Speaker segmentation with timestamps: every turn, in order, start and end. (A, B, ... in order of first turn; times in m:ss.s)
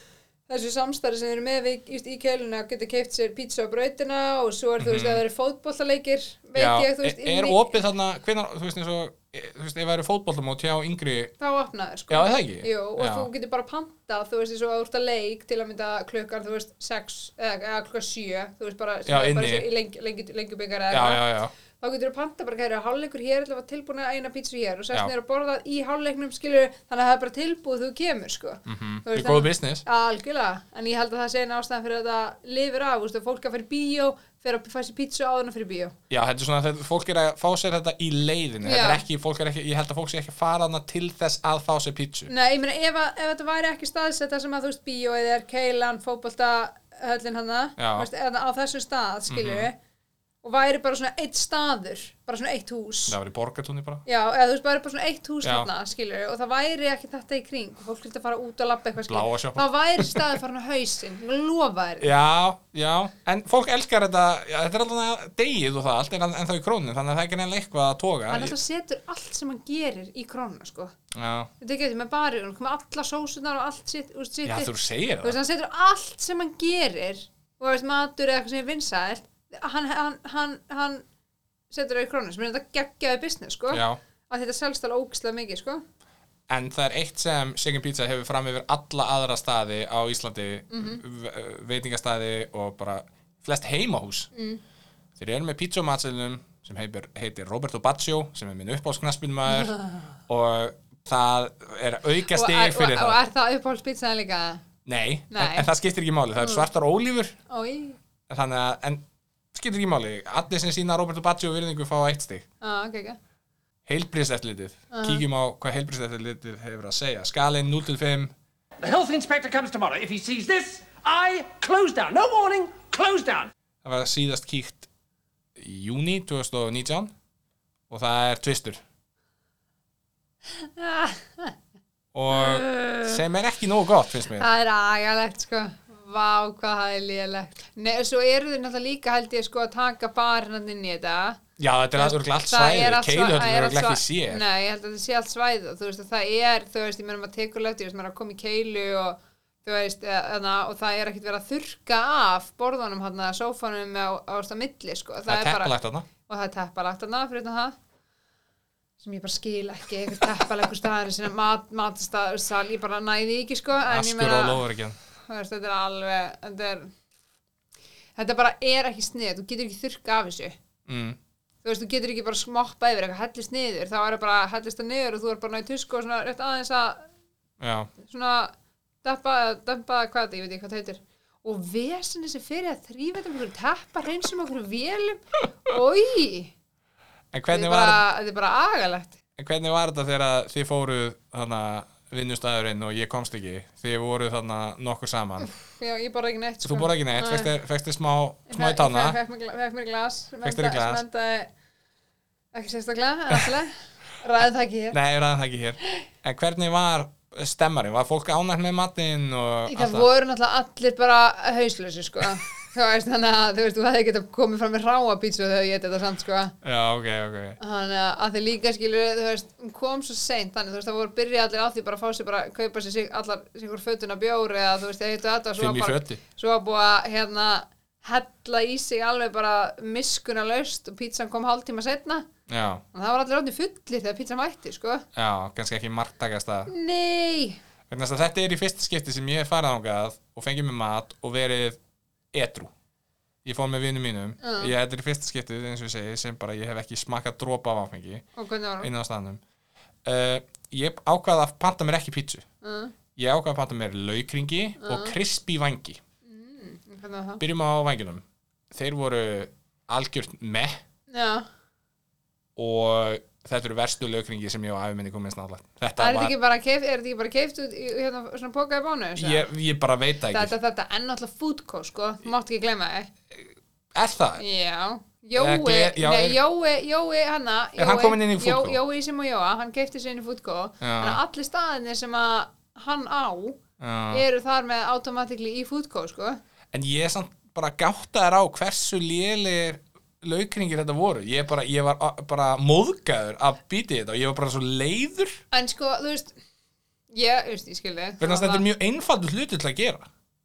0:00.5-0:07.8 A
0:04.8-0:05.2 B
0:06.5-0:11.3 B
0:11.4-0:35.9 A
0:12.1-0:13.3 B
0:19.1-0:19.7 B
0:20.9-0:21.5 B
0:28.6-0:29.8 B
0:36.1-0:42.3 B
0:38.6-0:39.0 A
0:42.3-0:49.7 A
0:47.8-0:48.1 B
0:49.3-0:49.7 B
0:50.4-0:53.2 A
0:53.1-0:54.0 B
0:54.0-1:02.1 A
0:55.4-0:55.7 B
0:59.0-1:00.4 B
1:02.0-1:08.5 B
1:08.3-1:10.9 A
1:11.1-1:11.5 B
1:11.6-1:21.0 A
1:14.4-1:15.4 B
1:21.7-1:25.8 A
1:23.7-1:24.0 B
1:26.5-1:34.3 B
1:30.7-1:31.0 A
1:34.3-1:34.6 A
1:35.2-1:43.2 B
1:39.5-1:40.1 A
1:42.3-1:44.6 A
1:44.8-1:47.4 B
1:45.3-1:45.7 A
1:46.4-1:46.6 A
1:47.5-1:48.0 A
1:48.3-1:49.0 B
1:49.5-1:52.4 B
1:52.6-1:53.2 A
1:53.8-1:58.3 B
1:54.9-1:55.2 A
1:58.8-2:03.5 C
2:03.8-2:04.9 B
2:05.6-2:07.1 B
2:07.9-2:08.8 B
2:10.6-2:11.5 A
2:12.1-2:14.5 B
2:12.3-2:13.2 A
2:14.3-2:21.4 A
2:21.6-2:24.4 B
2:22.0-2:37.7 A
2:35.3-2:36.1 B
2:39.0-2:44.6 A
2:43.9-2:45.0 B
2:45.2-2:46.9 A
2:48.2-2:50.5 A
2:50.9-2:51.2 B
2:51.6-2:57.1 A
2:57.6-2:57.9 B
2:58.0-2:58.5 A
2:59.0-3:06.5 A
3:07.3-3:08.0 B
3:07.5-3:09.2 A
3:09.4-3:15.5 B
3:15.4-3:17.5 A
3:16.6-3:19.2 B
3:18.5-3:21.5 A
3:20.4-3:21.0 B
3:22.5-3:25.0 A
3:24.9-3:30.1 B
3:29.7-3:36.5 A
3:36.6-3:37.6 B
3:37.6-3:52.2 A
3:45.6-3:46.2 B
3:52.5-3:52.8 B
3:52.9-3:55.0 A
3:55.2-3:56.7 B
3:56.7-3:57.6 A
3:57.9-4:01.8 B
4:02.3-4:02.7 B
4:03.4-4:08.2 B
4:04.4-4:04.7 A
4:08.4-4:08.9 A
4:08.8-4:09.4 B
4:10.0-4:12.4 B
4:12.6-4:12.9 A
4:13.2-4:16.0 B
4:14.8-4:15.2 A
4:16.2-4:17.4 A
4:17.4-4:20.8 B
4:21.1-4:21.4 A
4:22.6-4:26.3 B
4:26.0-4:29.5 A
4:29.2-4:30.5 B
4:30.3-4:33.1 A
4:33.3-4:34.4 B
4:34.4-4:43.6 A
4:35.4-4:36.4 B
4:37.8-4:38.8 B
4:40.8-4:41.2 B
4:43.8-4:44.2 B
4:44.1-4:46.4 A
4:46.7-4:55.4 B
4:55.5-4:56.4 A
4:57.1-4:58.6 A
4:58.2-5:00.1 B